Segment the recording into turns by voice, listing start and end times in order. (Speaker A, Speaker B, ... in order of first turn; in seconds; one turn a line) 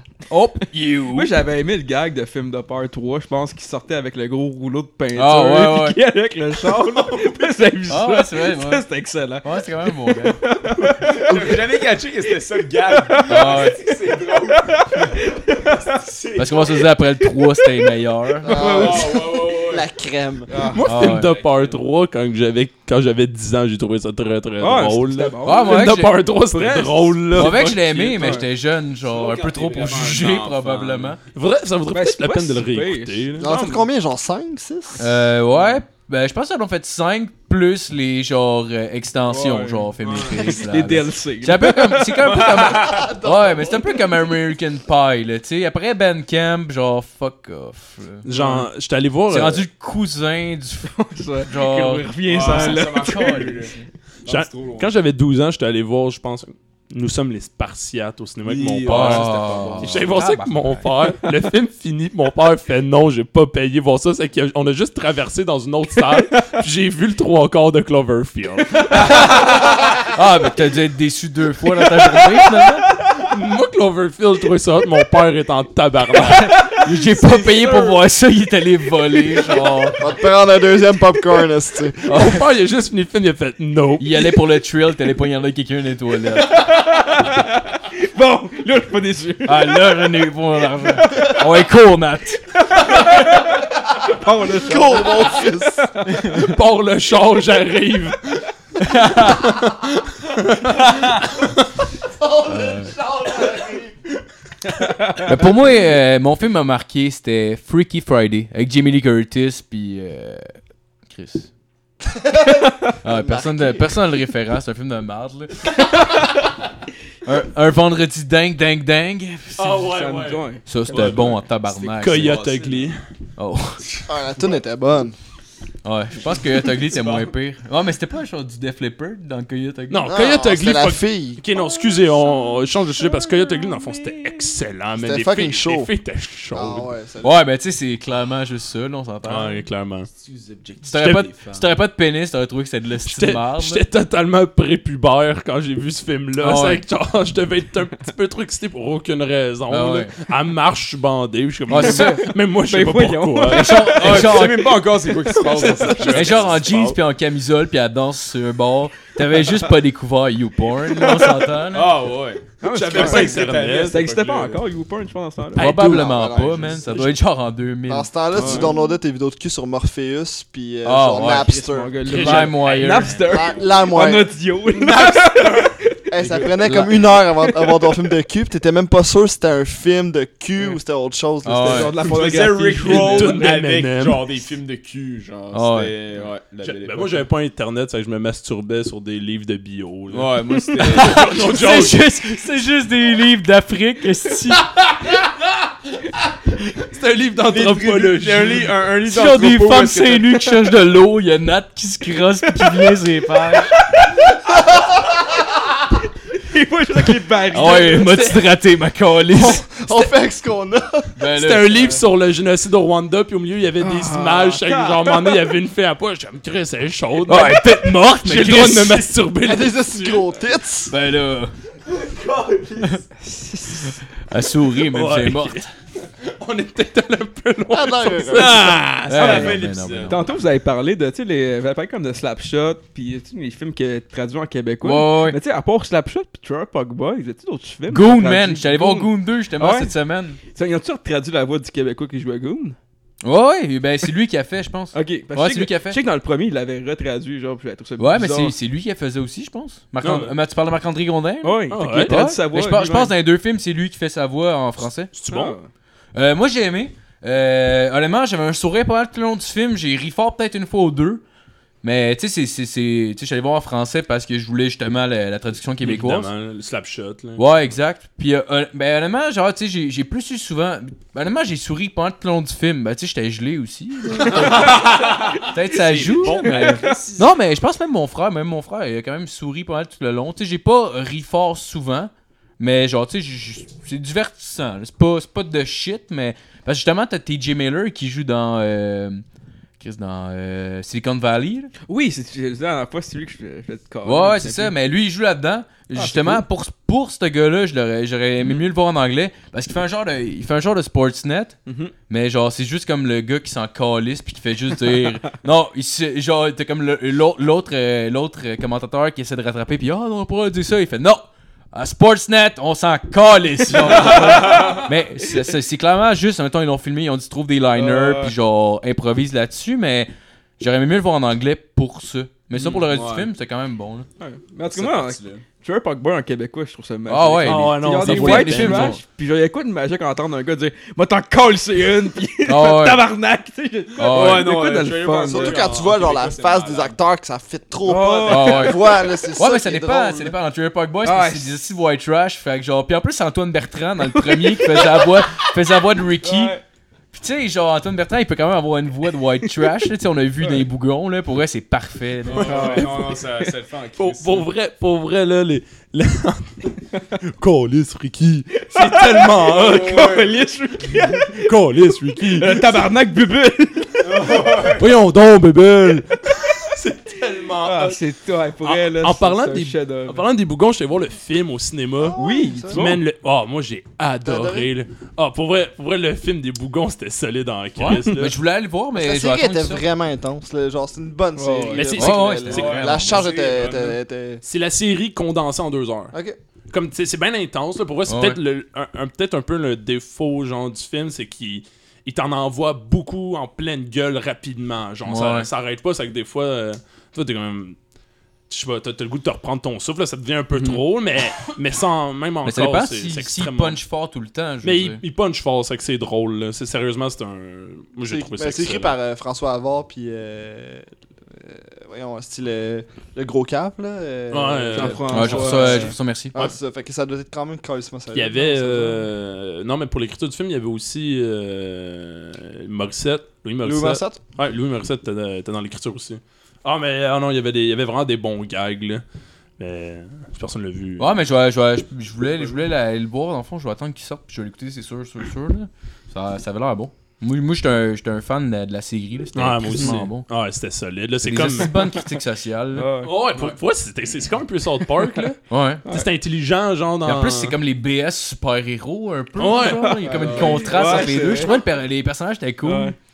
Speaker A: 0.3-1.3
Speaker B: 1.1-11.8
Speaker A: 5.1-6.0
Speaker C: 6.7-7.6
Speaker A: 7.9-8.8
Speaker A: 9.4-10.4
Speaker C: 11.0-16.8
Speaker B: 12.9-16.0
Speaker A: 13.3-13.8
Speaker A: 16.4-18.7
Speaker D: 18.4-20.5
Speaker B: 18.5-19.3
Speaker C: 18.5-19.9
Speaker C: 20.5-21.8
Speaker B: 20.5-20.8
Speaker E: 20.7-28.4
Speaker A: 20.9-21.3
Speaker B: 24.6-26.0
Speaker A: 25.4-26.2
Speaker B: 26.5-28.5
Speaker A: 27.3-31.2
Speaker C: 29.0-31.2
Speaker E: 31.3-33.7
Speaker B: 31.9-33.6
Speaker D: 33.4-35.2
Speaker A: 35.0-48.2
Speaker B: 39.3-42.4
Speaker C: 40.0-40.6
Speaker C: 42.2-43.1
Speaker D: 42.6-44.2
Speaker E: 48.2-49.6
Speaker B: 48.3-48.6
Speaker A: 49.3-53.7
Speaker B: 50.9-53.6
Speaker C: 52.2-54.9
Speaker E: 54.2-69.3
Speaker C: 58.4-60.3
Speaker A: 58.8-60.9
Speaker A: 68.9-72.9
Speaker E: 73.1-76.8
Speaker A: 76.4-80.0
Speaker C: 77.2-78.0
Speaker D: 80.0-82.0
Speaker A: 82.1-82.4
Speaker E: 82.1-84.2
Speaker A: 84.0-86.7
Speaker B: 86.5-89.9
Speaker A: 89.4-92.4
Speaker B: 91.0-91.4
Speaker B: 92.7-96.4
Speaker D: 94.5-95.9
Speaker E: 96.2-98.5
Speaker A: 98.8-99.6
Speaker E: 99.2-101.5
Speaker D: 102.2-104.0
Speaker A: 102.5-103.0
Speaker B: 105.0-105.3
Speaker A: 105.2-110.6
Speaker A: 111.1-111.5
Speaker D: 112.1-114.0
Speaker A: 113.0-116.1
Speaker A: 117.2-119.9
Speaker E: 119.6-121.4
Speaker B: 119.8-121.4
Speaker A: 120.7-122.4
Speaker E: 122.0-123.0
Speaker C: 122.0-122.9
Speaker A: 123.4-123.8
Speaker D: 124.1-125.2
Speaker A: 125.8-130.1
Speaker C: 126.7-127.3
Speaker E: 129.9-136.9
Speaker D: 130.1-131.4
Speaker D: 134.9-135.9
Speaker D: 136.5-137.4
Speaker A: 137.2-139.6
Speaker E: 139.2-140.1
Speaker C: 140.1-141.7
Speaker A: 140.8-143.8
Speaker E: 141.0-141.2
Speaker E: 143.0-154.3
Speaker A: 146.4-146.8
Speaker A: 149.7-150.1
Speaker A: 151.7-152.2
Speaker B: 151.8-154.4
Speaker A: 153.5-154.8
Speaker C: 153.9-157.0
Speaker E: 155.3-156.5
Speaker B: 155.4-155.9
Speaker A: 156.1-161.9
Speaker C: 161.7-164.6
Speaker B: 162.6-166.1
Speaker E: 162.7-164.0
Speaker A: 165.5-168.1
Speaker E: 165.6-166.0
Speaker D: 165.7-167.1
Speaker D: 167.9-172.0
Speaker B: 168.3-168.7
Speaker A: 170.8-173.2
Speaker B: 171.2-177.9
Speaker E: 172.1-173.4
Speaker D: 173.2-174.3
Speaker C: 174.7-176.5
Speaker D: 176.1-182.0
Speaker A: 181.4-181.9
Speaker B: 181.6-183.6
Speaker C: 182.0-187.2
Speaker E: 182.8-184.3
Speaker A: 185.5-185.9
Speaker E: 186.6-192.0
Speaker C: 190.1-192.0
Speaker A: 190.9-194.7
Speaker E: 196.8-198.8
Speaker C: 197.4-200.5
Speaker A: 199.0-203.7
Speaker B: 206.3-208.4
Speaker A: 207.5-210.0
Speaker D: 209.3-211.2
Speaker A: 211.2-211.8
Speaker E: 211.3-220.2
Speaker B: 213.8-215.4
Speaker A: 217.2-219.1
Speaker D: 219.4-220.9
Speaker A: 220.9-221.5
Speaker C: 221.9-223.0
Speaker B: 223.2-224.0
Speaker A: 224.3-225.7
Speaker E: 224.9-225.7
Speaker E: 226.2-229.4
Speaker D: 227.7-228.8
Speaker C: 228.3-230.3
Speaker A: 229.1-230.2
Speaker B: 229.2-239.9
Speaker A: 234.8-235.4
Speaker A: 237.9-240.4
Speaker B: 240.5-242.8
Speaker A: 243.2-246.0
Speaker B: 244.9-248.6
Speaker A: 248.0-255.1
Speaker E: 250.0-250.3
Speaker B: 251.4-253.1
Speaker E: 251.7-252.2
Speaker E: 255.1-255.6
Speaker B: 255.3-255.7
Speaker A: 256.1-261.2
Speaker A: 261.8-266.3
Speaker E: 265.8-267.5
Speaker A: 267.4-274.9
Speaker B: 274.2-274.8
Speaker C: 274.3-277.4
Speaker A: 275.4-289.2
Speaker B: 276.2-277.0
Speaker A: 289.8-291.7
Speaker B: 291.9-294.7
Speaker A: 294.0-301.6
Speaker B: 295.9-296.4
Speaker B: 301.6-301.9
Speaker A: 302.1-324.1
Speaker B: 313.9-314.8
Speaker B: 317.7-318.3
Speaker C: 322.6-323.3
Speaker B: 324.2-335.6
Speaker C: 324.6-325.4
Speaker A: 327.1-329.0
Speaker E: 327.4-329.0
Speaker A: 332.4-333.1
Speaker A: 333.9-334.5
Speaker C: 334.0-337.0
Speaker D: 335.2-340.3
Speaker B: 337.8-339.0
Speaker A: 338.2-338.8
Speaker A: 339.3-346.6
Speaker B: 341.0-341.6
Speaker B: 344.1-345.5
Speaker B: 346.2-346.6
Speaker A: 347.1-352.9
Speaker C: 352.2-354.5
Speaker B: 352.3-353.2
Speaker E: 354.0-360.1
Speaker B: 358.6-361.5
Speaker C: 359.4-361.0
Speaker E: 361.3-362.8
Speaker B: 362.2-364.3
Speaker C: 364.0-364.9
Speaker E: 364.6-368.0
Speaker B: 367.6-370.2
Speaker E: 368.6-378.4
Speaker D: 372.0-372.8
Speaker B: 372.1-373.0
Speaker D: 374.2-374.7
Speaker A: 377.8-379.9
Speaker D: 378.9-384.4
Speaker B: 381.4-381.9
Speaker E: 381.7-382.8
Speaker A: 381.9-383.2
Speaker C: 382.5-384.0
Speaker E: 384.4-386.1
Speaker D: 386.1-386.4
Speaker E: 386.7-397.8
Speaker A: 388.1-388.4
Speaker A: 395.0-395.5
Speaker E: 398.5-403.8
Speaker A: 400.5-400.8
Speaker A: 402.4-405.0
Speaker E: 404.6-408.9
Speaker D: 408.0-419.1
Speaker E: 414.3-415.6
Speaker B: 414.7-415.9
Speaker A: 415.1-416.3
Speaker E: 418.1-429.0
Speaker D: 423.6-424.2
Speaker E: 429.6-431.2
Speaker A: 431.0-440.2
Speaker E: 439.3-441.9
Speaker A: 441.2-442.9
Speaker B: 442.8-443.1
Speaker E: 443.0-447.6
Speaker C: 443.3-443.6
Speaker A: 445.5-445.8
Speaker A: 447.0-452.9
Speaker E: 449.4-450.0
Speaker B: 449.6-451.6
Speaker C: 450.2-450.6
Speaker B: 452.6-452.9